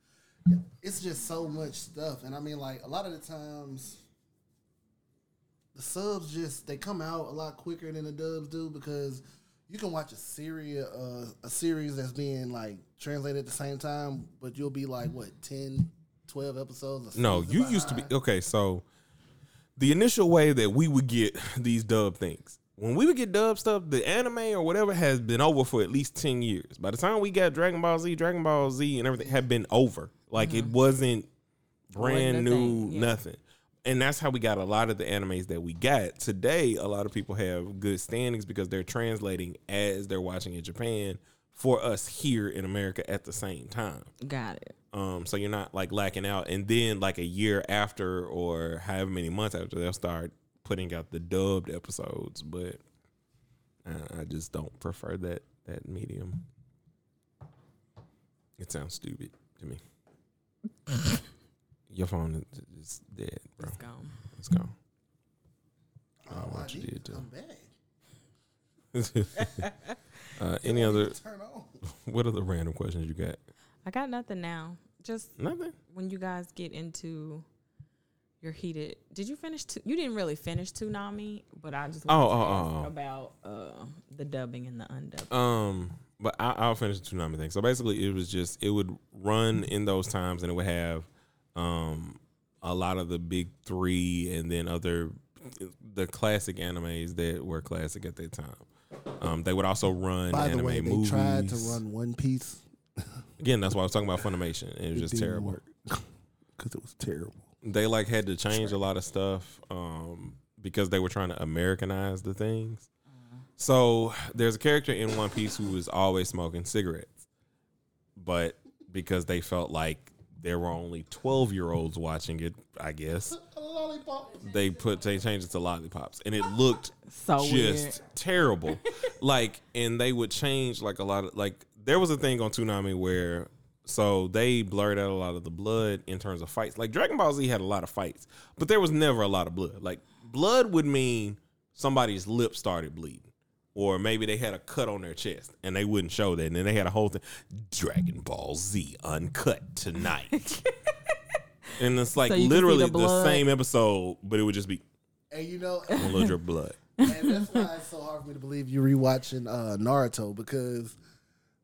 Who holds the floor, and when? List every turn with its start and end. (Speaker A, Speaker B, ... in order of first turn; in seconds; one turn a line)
Speaker A: 0.5-4.0
Speaker A: 5.7-18.1
Speaker B: 17.1-18.9
Speaker B: 19.8-31.3
Speaker C: 30.4-30.7
Speaker B: 31.9-44.1
Speaker C: 32.0-33.1
Speaker C: 44.2-44.7
Speaker B: 44.9-52.8
Speaker B: 53.8-56.5
Speaker B: 58.6-59.8
Speaker B: 61.9-63.8
Speaker C: 63.6-64.2
Speaker B: 64.3-64.7
Speaker A: 66.2-67.7
Speaker B: 66.3-67.3
Speaker B: 68.9-69.7
Speaker C: 69.4-69.9
Speaker B: 70.4-71.2
Speaker A: 70.6-71.8
Speaker B: 71.9-73.4
Speaker C: 73.8-75.4
Speaker B: 75.4-75.8
Speaker C: 75.9-77.5
Speaker C: 78.4-85.3
Speaker B: 82.1-82.9
Speaker B: 85.3-98.7
Speaker B: 99.2-101.8
Speaker A: 100.3-103.2
Speaker B: 103.4-105.7
Speaker A: 104.9-106.1
Speaker A: 106.6-107.5
Speaker B: 107.6-112.9
Speaker B: 113.6-117.3
Speaker B: 118.2-123.4
Speaker A: 123.3-124.5
Speaker B: 124.4-150.4
Speaker C: 127.1-128.0
Speaker C: 150.3-151.2
Speaker B: 151.8-154.8
Speaker C: 152.2-153.4
Speaker A: 155.3-156.3
Speaker C: 155.9-156.3
Speaker B: 156.0-156.8
Speaker A: 157.0-161.0
Speaker C: 157.0-157.6